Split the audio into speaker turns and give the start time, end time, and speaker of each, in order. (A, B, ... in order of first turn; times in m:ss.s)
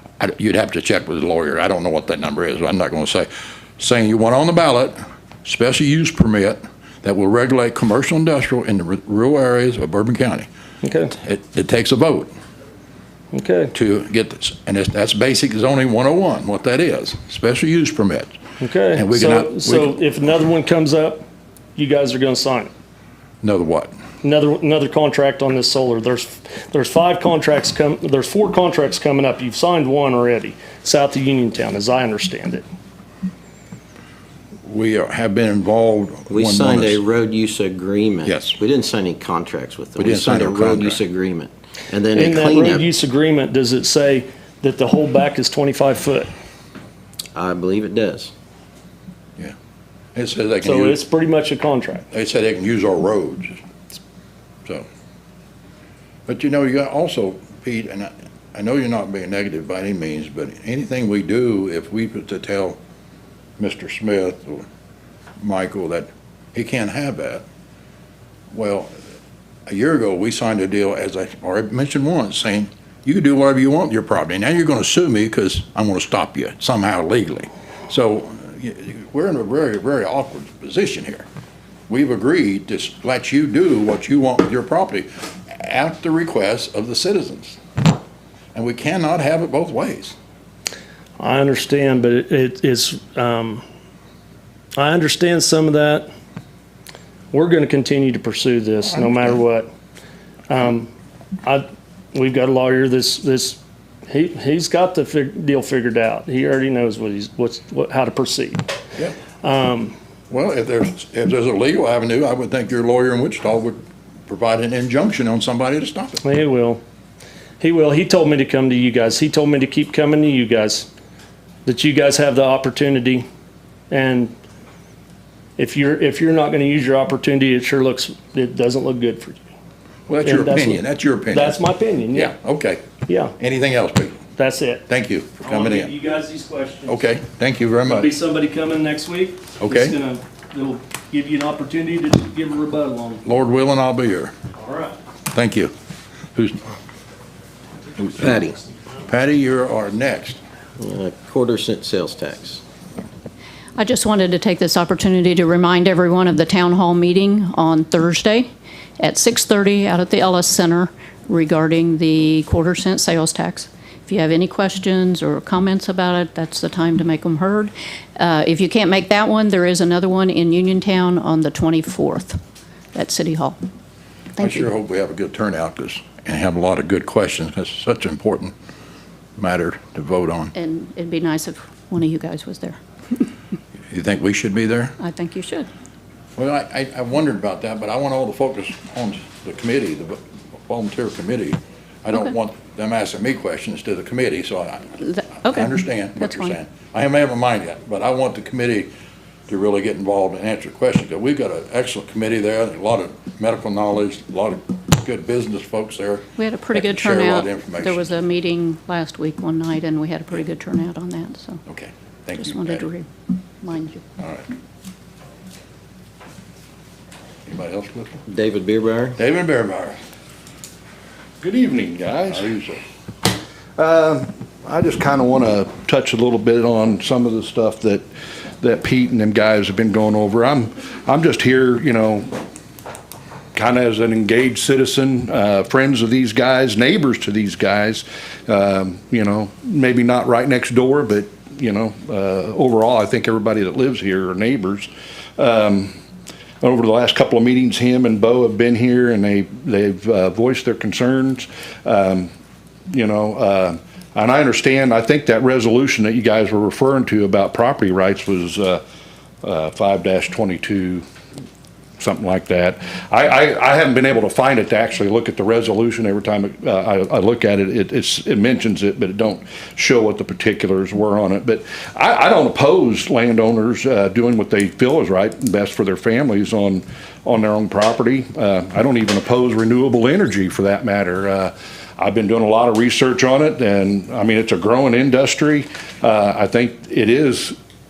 0:00.2-0:10.5 A
0:10.8-0:11.1 B
0:11.2-0:12.3 A
0:13.3-0:13.7 B
0:13.7-0:18.4 A
0:18.6-0:21.2 B
0:19.0-0:19.9 A
0:21.8-0:22.7 B
0:23.4-0:23.9 A
0:24.2-0:32.6 B
0:34.7-0:37.0 A
0:36.3-0:42.9 C
0:38.2-0:38.6 A
0:40.0-0:41.0 A
0:42.1-0:46.3 B
0:47.3-0:48.3 C
0:50.2-0:51.0 A
0:50.6-0:52.0 B
0:52.1-0:53.6 A
0:56.3-1:02.8 A
1:03.6-1:04.7 A
1:05.4-1:07.4 A
1:08.5-1:08.9 A
1:09.7-1:21.2 A
1:21.9-1:27.6 A
1:28.6-1:30.2 A
1:31.2-1:33.6 B
1:34.8-1:36.1 B
1:37.3-1:39.7 B
1:40.5-1:40.9 B
1:41.4-1:48.7 B
1:49.4-1:49.9 B
1:50.3-1:56.2 A
1:56.2-1:56.8 B
1:57.6-2:00.9 B
2:01.6-2:03.3 B
2:03.9-2:04.3 B
2:05.6-2:09.4 B
2:10.1-2:11.6 A
2:10.2-2:12.3 B
2:12.1-2:12.8 A
2:13.1-2:13.3 B
2:13.4-2:14.2 A
2:14.4-2:14.8 B
2:14.9-2:15.9 A
2:15.4-2:17.0 B
2:16.9-2:18.1 A
2:17.9-2:23.2 B
2:19.6-2:20.0 A
2:23.2-2:24.3 A
2:24.6-2:25.0 B
2:25.3-2:25.7 A
2:26.4-2:26.6 A
2:28.2-2:28.6 C
2:29.1-2:30.4 A
2:30.8-2:32.6 C
2:33.8-2:38.5 D
2:39.0-2:52.4 D
2:52.9-2:53.6 D
2:54.4-2:54.6 D
2:54.4-2:58.5 A
2:59.4-3:00.5 A
3:00.5-3:03.2 D
3:03.9-3:05.0 A
3:05.0-3:05.7 D
3:06.4-3:18.9 A
3:15.0-3:16.6 D
3:19.5-3:28.1 A
3:26.4-3:31.6 D
3:31.7-3:32.8 A
3:32.4-3:33.1 D
3:33.6-3:34.0 D
3:34.2-3:34.5 A
3:37.5-3:38.2 A
3:38.3-3:39.2 C
3:39.2-3:40.0 A
3:41.4-3:42.5 E
3:42.3-3:42.8 A
3:43.8-3:48.0 E
3:48.6-3:52.3 E
3:53.6-4:05.9 E
4:06.6-4:12.3 E
4:12.9-4:18.8 E
4:19.4-4:21.0 E
4:22.0-4:47.6 E